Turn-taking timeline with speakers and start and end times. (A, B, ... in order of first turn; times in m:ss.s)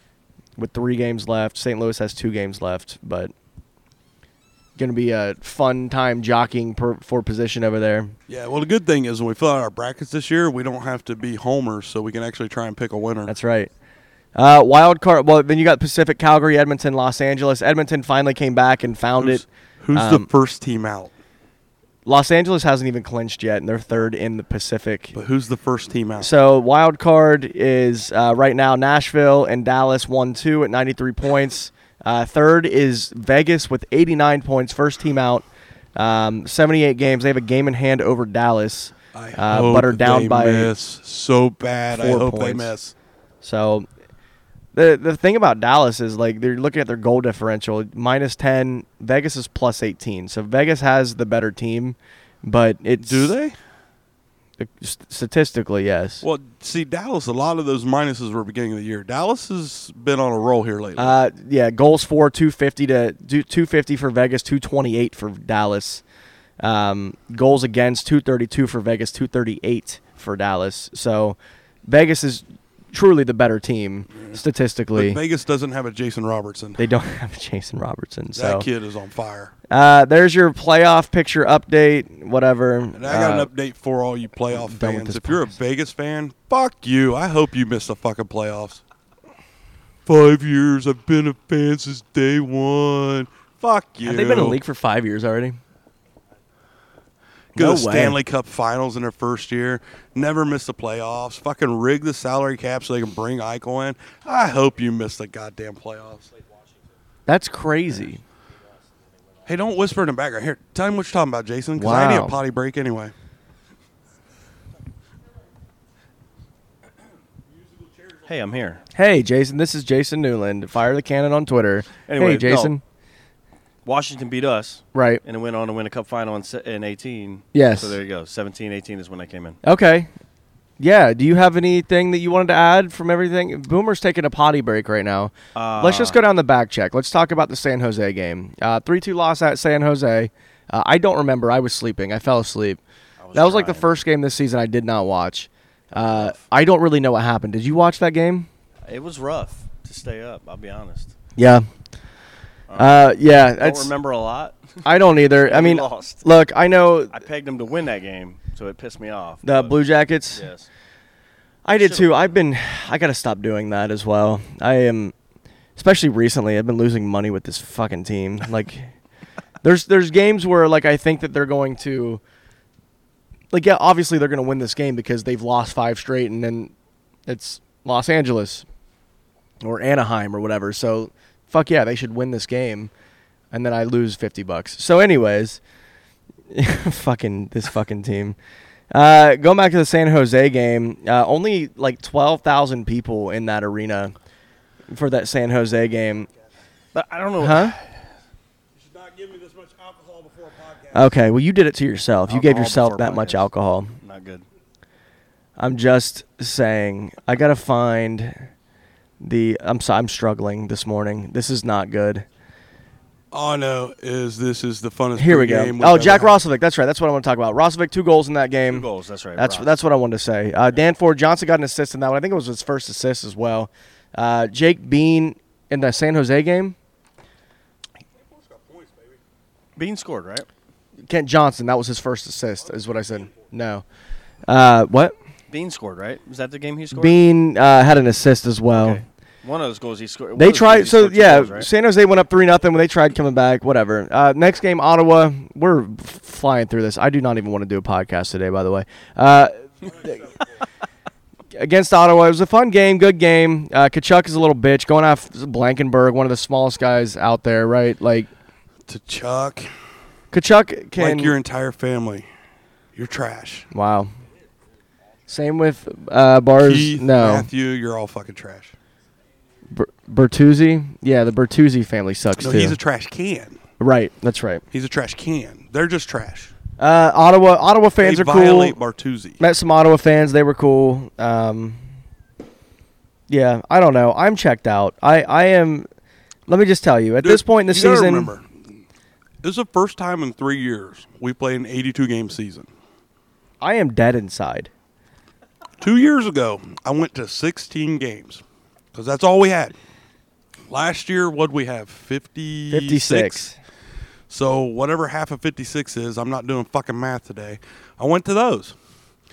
0:00.6-0:03.3 A
0:04.8-0:08.2 A
0:08.3-0:13.3 B
0:13.3-0:13.7 A
0:14.4-0:20.3 A
0:19.2-0:21.1 B
0:22.1-0:25.2 A
0:25.1-0:26.3 B
0:26.2-0:40.7 A
0:39.1-0:43.0 B
0:41.9-0:42.7 A
0:43.4-0:43.9 A
0:44.7-0:53.3 A
0:53.0-0:53.6 B
0:54.6-0:56.2 A
0:56.2-1:01.2 B
1:01.0-1:06.0 A
1:06.6-1:15.2 A
1:14.2-1:14.4 B
1:15.0-1:16.8 B
1:16.8-1:18.7 A
1:18.4-1:19.5 B
1:19.7-1:23.5 A
1:23.0-1:28.8 B
1:24.5-1:25.5 A
1:30.1-1:34.6 B
1:34.0-1:35.6 A
1:37.6-1:38.2 A
1:37.6-1:46.3 B
1:47.3-1:48.2 A
1:49.4-1:53.1 B
1:51.8-1:52.4 A
1:58.2-1:58.8 C
1:59.0-2:02.8 A
2:02.1-2:02.7 C
2:03.8-2:09.6 C
2:04.9-2:05.2 A
2:07.5-2:08.0 A
2:09.6-2:10.1 A
2:10.8-2:22.8 A
2:15.6-2:16.2 C
2:23.2-2:23.9 C
2:23.3-2:28.5 A
2:26.0-2:26.4 C
2:28.9-2:31.2 C
2:31.4-2:31.7 A
2:32.7-2:34.8 C
2:32.8-2:33.9 A
2:34.8-2:37.2 A
2:35.4-2:36.2 C
2:37.1-2:39.8 C
2:39.4-2:40.5 A
2:40.4-2:40.7 C
2:41.6-2:45.1 A
2:41.8-2:42.3 C
2:45.8-2:48.9 A
2:49.6-2:52.2 A
2:53.5-2:56.7 A
2:57.3-2:58.7 A
2:59.6-3:02.9 A
3:03.5-3:05.6 A
3:06.5-3:08.4 A
3:08.9-3:14.2 A
3:14.9-3:16.3 A
3:16.9-3:18.0 C
3:17.4-3:17.8 A
3:18.8-3:21.0 B
3:20.9-3:24.0 A
3:22.3-3:23.5 C
3:24.0-3:24.4 C
3:25.6-3:28.5 A
3:29.2-3:32.2 A
3:33.3-3:36.4 B
3:35.2-3:46.8 A
3:38.7-3:39.7 C
3:48.6-3:48.9 B
3:49.8-3:50.5 C
3:51.1-3:53.8 A
3:54.5-3:55.2 A
3:55.5-3:57.2 C
3:56.9-3:59.0 A
3:58.7-4:01.7 C
4:00.4-4:10.3 A
4:11.5-4:18.3 A
4:18.9-4:19.7 B
4:20.3-4:21.4 A
4:21.0-4:22.3 B
4:23.0-4:23.7 B
4:23.7-4:24.1 A
4:25.3-4:27.5 A
4:26.6-4:28.7 B
4:29.7-4:32.8 A
4:32.4-4:33.6 B
4:33.8-4:34.6 A
4:34.7-4:36.5 B
4:36.8-4:38.8 A
4:38.0-4:39.4 B
4:39.4-4:41.8 A
4:43.3-4:45.9 A
4:46.5-4:48.3 A
4:47.2-4:48.5 B
4:49.4-4:52.7 B
4:53.6-4:54.7 A
4:55.8-4:58.4 B
4:58.9-4:59.7 B
5:00.7-5:03.5 B
5:02.7-5:03.6 A
5:04.3-5:08.8 B